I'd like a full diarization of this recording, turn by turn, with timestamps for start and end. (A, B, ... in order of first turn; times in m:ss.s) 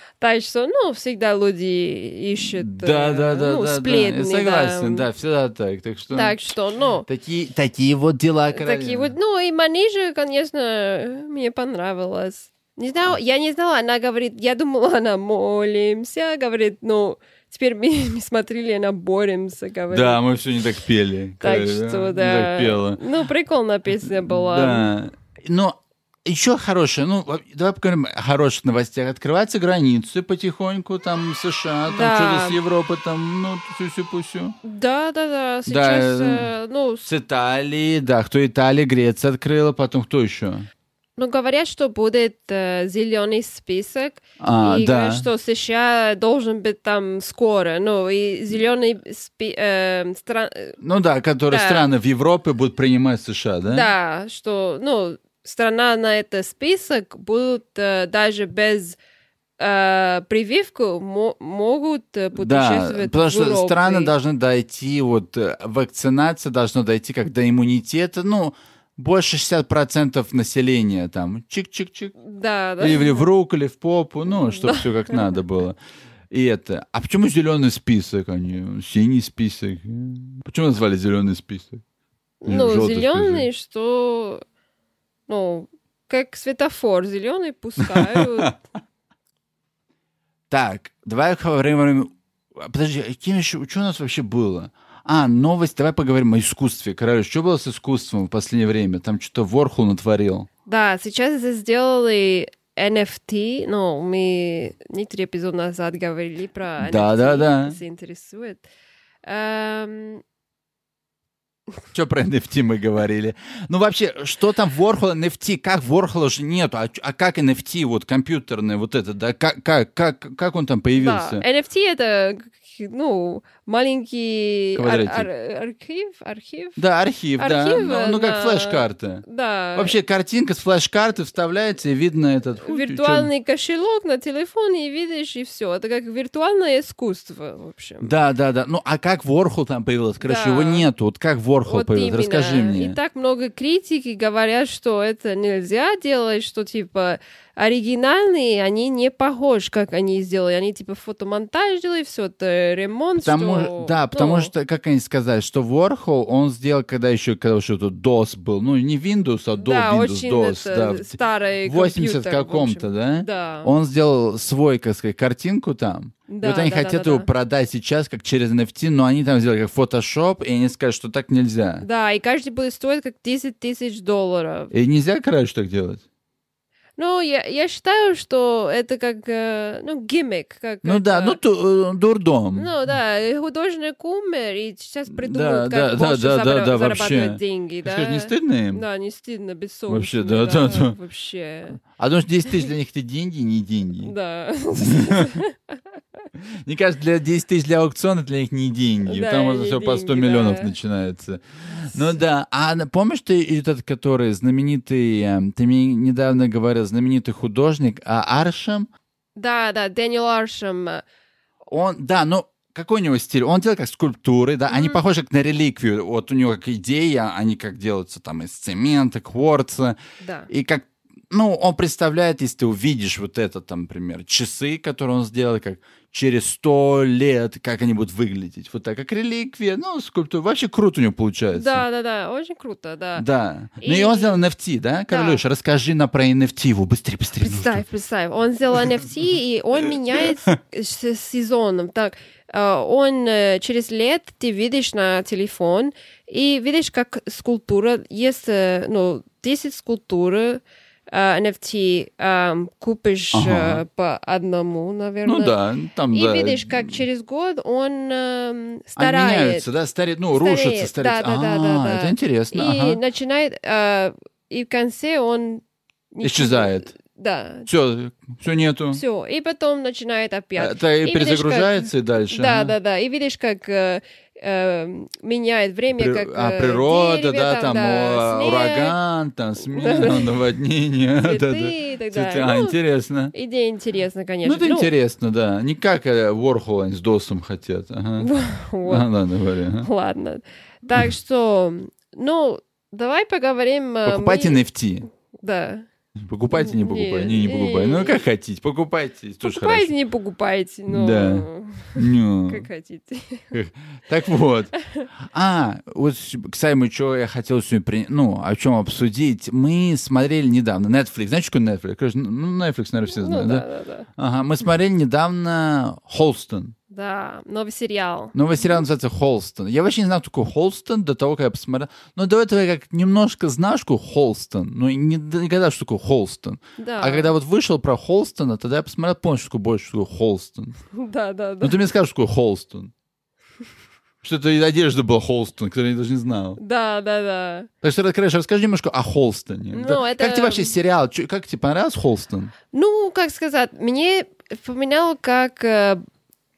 0:00.2-0:05.1 A
0:02.4-0:06.4 B
0:06.1-0:07.0 A
0:07.0-0:09.1 B
0:08.5-0:20.2 A
0:19.9-0:23.0 B
0:21.4-0:24.9 A
0:24.0-0:34.6 B
0:31.9-0:32.6 A
0:34.6-0:37.0 A
0:35.6-0:36.5 B
0:37.0-0:40.7 B
0:41.2-0:50.8 A
0:44.4-0:45.3 B
0:50.8-0:53.9 B
0:51.5-0:51.9 A
0:53.7-0:59.0 A
0:59.6-1:04.1 A
1:02.4-1:12.1 B
1:12.2-1:13.3 A
1:12.8-1:15.8 B
1:14.4-1:15.3 A
1:16.3-1:21.8 B
1:22.4-1:24.4 A
1:22.5-1:23.5 B
1:25.3-1:28.5 A
1:27.8-1:28.4 B
1:30.5-1:40.5 B
1:40.7-1:48.6 A
1:46.8-1:47.8 B
1:49.2-1:50.2 A
1:51.9-2:01.4 B
2:01.0-2:06.8 A
2:04.8-2:05.3 B
2:06.8-2:09.2 B
2:07.4-2:10.0 A
2:09.8-2:13.3 B
2:12.6-2:18.1 A
2:18.0-2:23.0 B
2:20.2-2:20.9 A
2:21.6-2:34.5 A
2:33.2-2:51.8 B
2:39.6-2:43.7 A
2:46.3-2:47.3 A
2:51.8-2:54.7 A
2:54.7-2:56.0 B
2:57.0-3:01.4 A
3:00.8-3:02.7 B
3:02.5-3:11.8 A
3:05.1-3:08.8 B
3:09.9-3:11.0 B
3:11.9-3:14.1 B
3:14.0-3:15.8 A
3:14.8-3:15.4 B
3:16.5-3:28.9 B
3:19.0-3:20.7 A
3:29.4-3:31.0 A
3:31.7-3:40.0 B
3:34.7-3:35.0 A
3:40.2-3:40.5 A
3:40.5-3:51.8 B
3:51.5-3:53.2 A
3:53.1-3:57.8 B
3:53.8-3:54.4 A
3:55.1-3:55.4 A
3:57.4-4:15.6 A
4:13.3-4:13.8 B
4:15.2-4:17.0 B
4:16.1-4:19.6 A
4:19.0-4:23.0 B
4:20.3-4:27.7 A
4:26.2-4:26.9 B
4:27.6-4:29.0 B
4:28.9-4:38.9 A
4:30.6-4:32.7 B
4:36.0-4:43.3 B
4:39.7-4:40.3 A
4:41.2-4:42.8 A
4:43.3-4:44.9 A
4:44.4-4:48.3 B
4:48.2-4:49.1 A
4:48.8-4:49.9 B
4:49.8-4:54.6 A
4:54.0-4:55.1 B
4:55.4-4:55.8 A
4:56.2-4:59.9 B
4:56.5-4:58.2 A
4:59.4-5:03.5 A
5:00.9-5:02.7 B
5:03.5-5:13.6 B
5:13.1-5:14.1 A
5:14.2-5:16.8 B
5:16.9-5:18.8 A
5:18.3-5:30.8 B
5:26.8-5:27.3 A
5:30.9-5:31.8 A
5:31.6-5:32.9 B
5:34.2-5:36.6 B
5:36.6-5:37.7 A
5:37.8-5:42.5 B
5:39.7-5:40.7 A
5:42.7-5:46.0 A